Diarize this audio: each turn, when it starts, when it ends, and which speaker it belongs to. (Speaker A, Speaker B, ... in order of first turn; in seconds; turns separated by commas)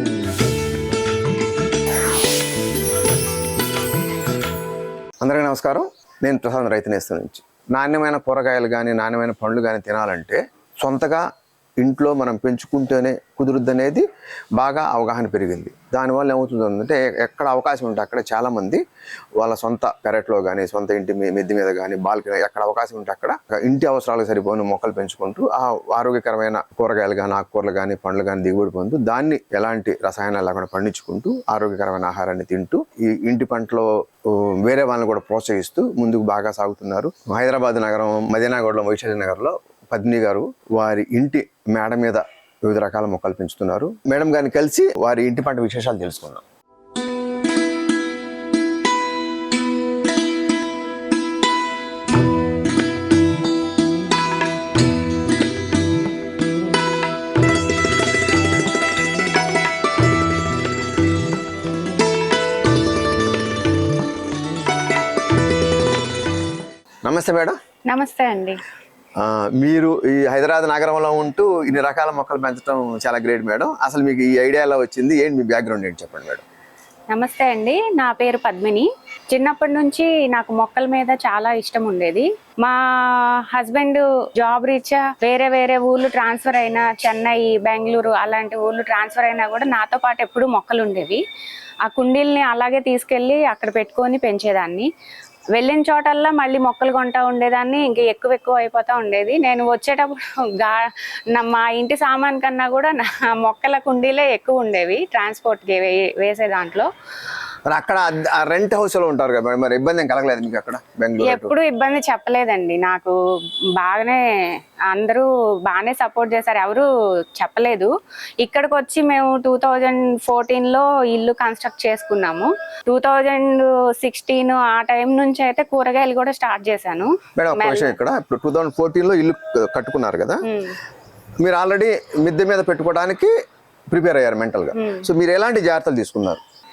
Speaker A: 5.2-11.3, Speaker A: 11.8-14.0, Speaker A: 14.6-18.8, Speaker A: 19.4-46.4, Speaker A: 67.0-67.6, Speaker B: 67.9-68.6, Speaker A: 69.2-76.4, Speaker B: 77.1-91.2, Speaker B: 91.8-94.9, Speaker B: 95.5-106.9, Speaker A: 107.7-111.5, Speaker B: 111.2-113.2, Speaker B: 113.8-128.0, Speaker A: 127.4-130.4, Speaker B: 130.4-130.8, Speaker A: 131.4-133.3, Speaker A: 133.9-136.4, Speaker B: 134.8-135.1